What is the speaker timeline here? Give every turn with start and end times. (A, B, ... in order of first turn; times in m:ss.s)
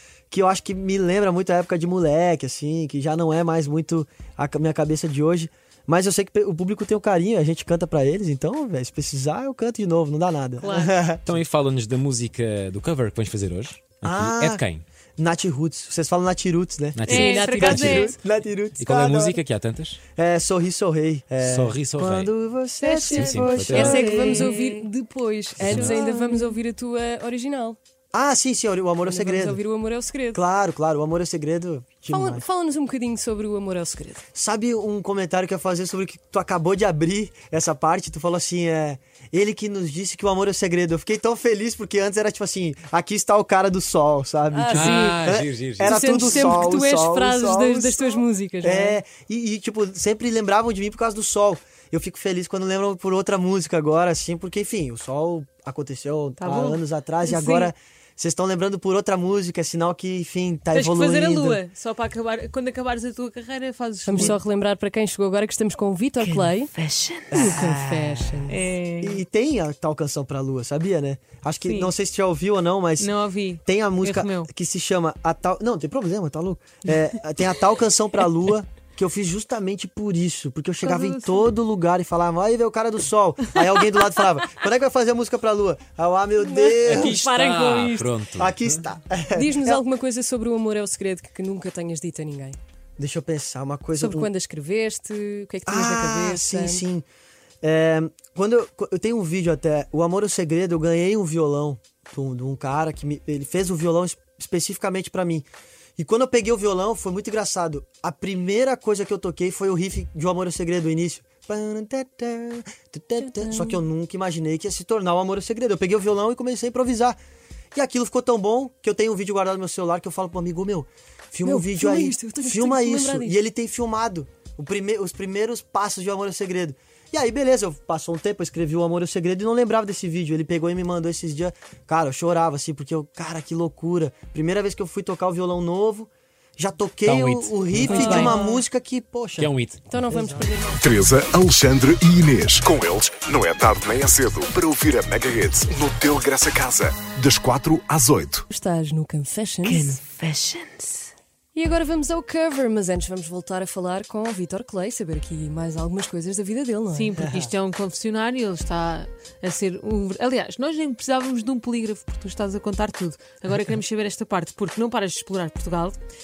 0:00.3-0:11.4 A
0:10.6-0:11.0 B
0:11.3-0:14.8 C
0:14.0-0:14.6 A
0:15.2-0:19.4 A
0:17.0-0:17.9 C
0:17.1-0:18.2 B
0:17.1-0:18.2 D
0:18.8-0:20.0 C
0:20.2-0:24.5 A
0:21.4-0:22.3 C
0:22.8-0:27.8 D
0:23.2-0:23.9 C
0:23.3-0:24.8 B
0:25.6-0:26.6 B
0:28.1-0:29.6 A
0:29.0-0:30.4 D
0:30.3-0:32.4 A
0:32.1-0:34.2 D
0:34.3-1:01.6 A
0:44.5-0:45.2 D
0:44.7-0:45.0 E
0:45.0-0:46.0 C
0:45.8-0:49.0 D
0:46.1-0:46.6 E
0:56.4-0:57.7 B
1:00.7-1:04.4 B
1:04.0-1:06.7 D
1:06.2-1:07.5 B
1:07.3-1:13.1 A
1:07.3-1:08.6 D
1:08.5-1:09.2 B
1:11.6-1:11.9 B
1:13.0-1:14.5 B
1:13.6-1:27.2 A
1:20.8-1:21.5 B
1:23.6-1:24.0 B
1:26.4-1:28.2 D
1:26.9-1:28.6 E
1:27.4-1:28.5 C
1:28.4-1:29.8 A
1:29.3-1:32.6 D
1:33.0-1:34.3 A
1:33.9-1:36.8 D
1:35.7-1:37.0 A
1:37.6-1:45.5 A
1:46.0-1:57.2 A
1:53.2-1:53.8 D
1:57.7-2:19.5 A
2:01.4-2:03.4 D
2:17.0-2:17.9 C
2:17.9-2:18.4 D
2:17.9-2:18.6 B
2:19.4-2:19.8 C
2:19.9-2:21.1 D
2:20.1-2:20.6 A
2:21.1-2:23.2 E
2:24.2-2:25.3 E
2:26.1-2:28.4 E
2:28.5-2:30.0 D
2:29.7-2:30.8 B
2:31.6-2:37.1 D
2:36.9-2:46.0 B
2:37.2-2:37.5 A